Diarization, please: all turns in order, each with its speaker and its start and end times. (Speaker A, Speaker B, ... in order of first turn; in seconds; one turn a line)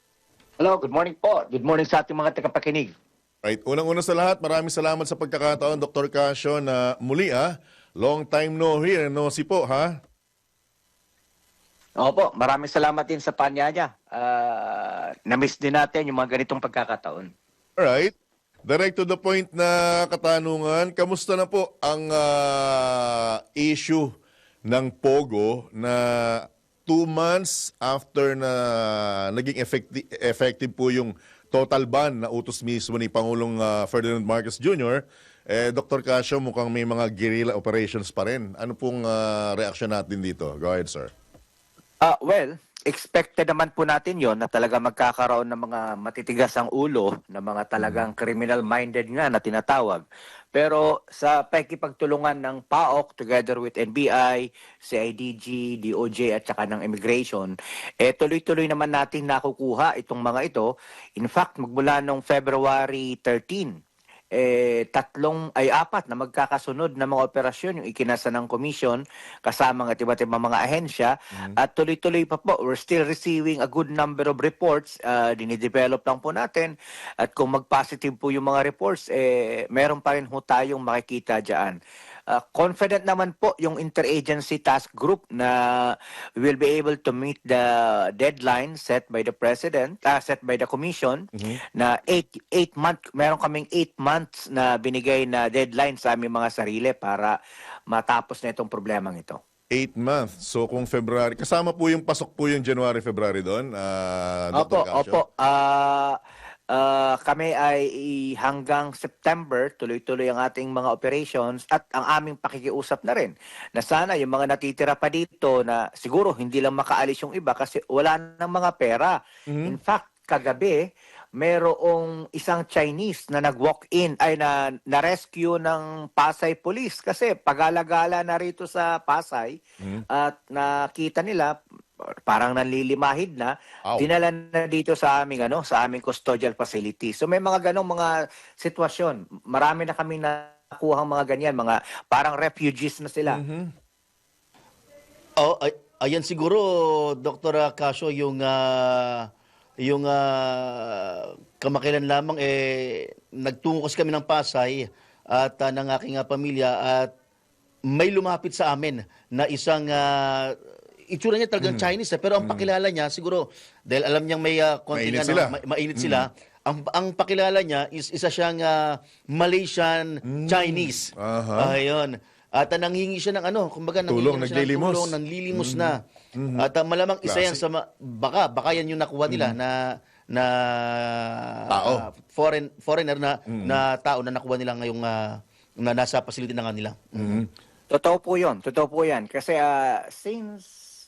Speaker A: 0.6-2.9
Speaker B: 3.4-9.9
Speaker A: 12.0-17.3
Speaker B: 17.8-18.1
Speaker B: 18.6-24.1
Speaker B: 24.7-41.1
Speaker A: 42.0-63.7
Speaker B: 47.8-48.1
Speaker A: 64.3-81.8
Speaker A: 82.3-97.3
Speaker B: 91.3-91.6
Speaker A: 97.9-99.4
Speaker B: 99.7-105.2
Speaker A: 104.5-106.2
Speaker A: 106.7-120.8
Speaker B: 119.5-119.8
Speaker A: 121.4-131.5
Speaker B: 129.8-130.0
Speaker A: 132.3-143.4
Speaker B: 143.2-143.7
Speaker C: 145.4-149.3
Speaker C: 149.8-157.1
Speaker C: 157.9-176.0
Speaker B: 161.6-161.9
Speaker B: 162.4-162.7
Speaker B: 164.9-166.3
Speaker B: 170.3-171.7
Speaker B: 174.1-176.7
Speaker C: 176.6-187.4
Speaker B: 177.2-177.6
Speaker B: 179.3-179.6
Speaker B: 181.7-182.0
Speaker B: 183.5-183.8
Speaker B: 187.2-187.5
Speaker A: 187.9-190.7